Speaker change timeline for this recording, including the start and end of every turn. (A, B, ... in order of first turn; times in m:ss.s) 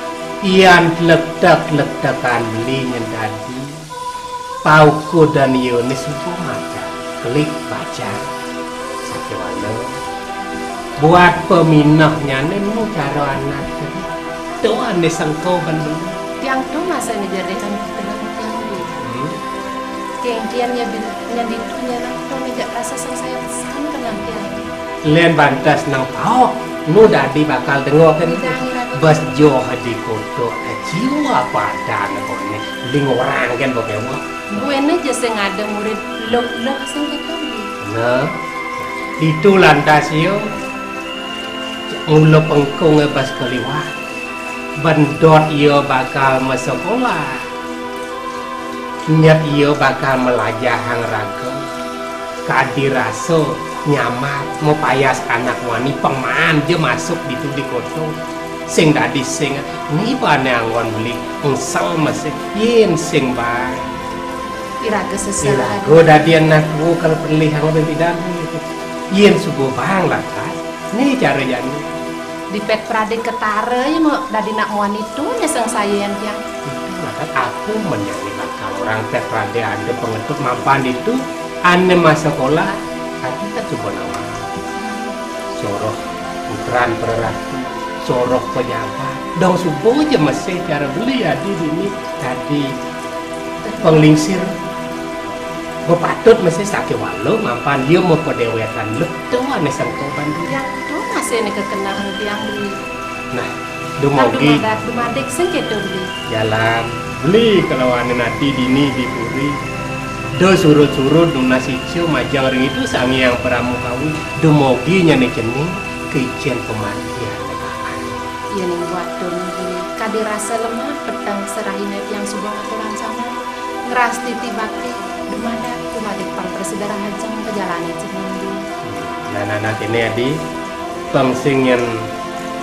0:00.4-0:03.8 A
0:04.6-0:08.2 A
0:09.0-0:10.0 A
0:11.0-0:14.1 A
0:14.6-0:16.2 A
0:16.4-0:19.0 B
0:19.0-0:19.4 A
0:20.2-0:24.6 B
0:25.0-0:34.6 A
0:28.2-0:29.2 B
0:34.5-0:37.7 B
0:37.8-0:40.5 A
0:41.9-0:43.9 A
0:44.8-0:47.5 A
0:49.1-0:51.6 A
0:52.4-0:58.1 A
0:58.7-1:03.9 A
1:04.8-1:06.4 B
1:05.4-1:11.8 A
1:12.5-1:16.4 B
1:16.6-1:24.4 A
1:24.8-1:25.2 B
1:25.5-1:32.7 A
1:33.6-1:34.3 B
1:33.8-1:34.5 A
1:35.8-1:40.6 A
1:40.5-1:42.7 B
1:43.3-1:44.6 A
1:44.1-1:46.1 B
1:46.3-1:49.6 A
1:50.4-1:58.2 A
1:58.6-2:03.3 B
2:03.9-2:08.6 B
2:08.8-2:10.4 A
2:11.1-2:12.1 A